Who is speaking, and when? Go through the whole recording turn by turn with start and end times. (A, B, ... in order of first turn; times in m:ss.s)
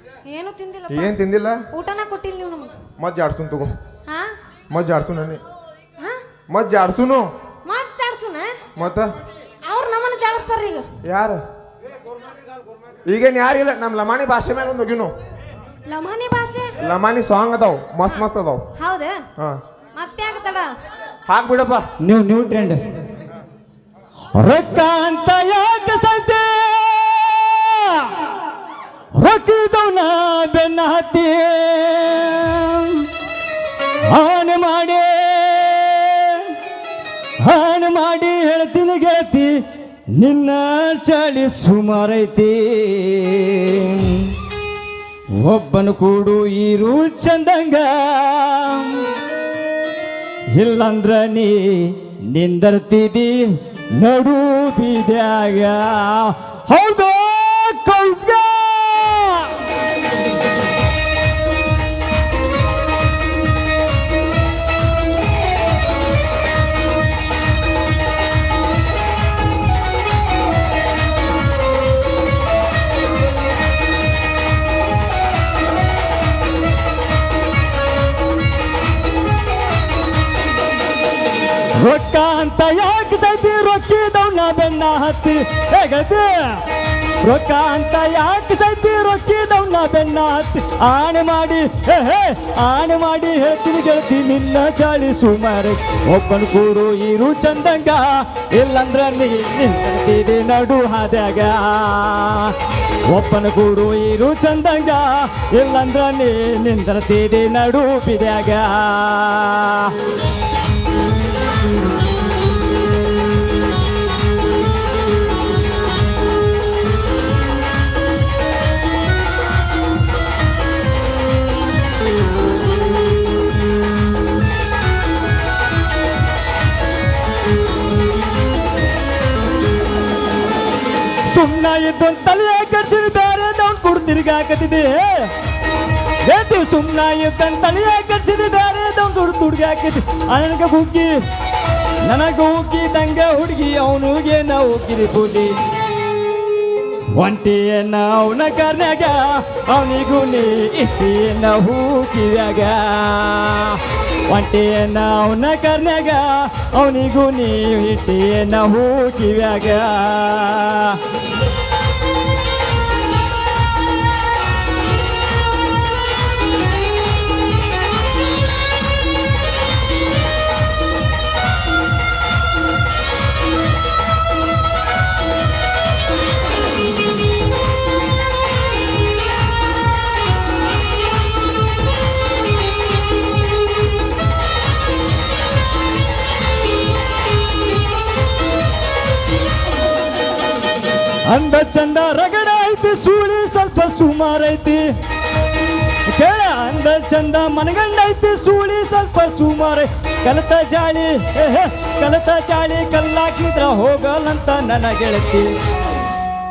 0:00.3-0:01.1 A
0:00.9-0:01.6 B
0:01.7-0:02.7 A
0:03.0-0:03.7 B
0:04.7-0:05.4 B
0:06.5-0:07.3 B
0:07.6-0:08.5 A
0:08.8-0:09.1 B
0:09.7-0:10.8 A
0:11.0-0:11.4 B
0:13.1-0:15.1 B
0:15.9-0:16.7 A
0:16.8-0:18.6 B
0:18.8-0:19.2 A
0:20.0-0:20.7 A
0:21.3-0:21.8 B
0:22.0-0:22.8 C
0:24.3-0:28.3 C
0:29.2-0:33.1 C
0:34.1-0:36.5 C
0:37.4-0:39.5 C
0:40.2-0:44.3 C
0:45.4-0:49.0 C
0:50.6-0:53.4 C
0:54.0-0:59.5 C
1:21.8-1:26.6 C
1:27.2-1:38.0 C
1:38.5-1:42.5 C
1:43.1-1:49.9 C
2:11.3-2:15.3 C
2:16.3-2:21.1 C
2:22.0-2:25.5 C
2:27.1-2:41.0 C
3:11.3-3:14.8 C
3:16.1-3:25.5 C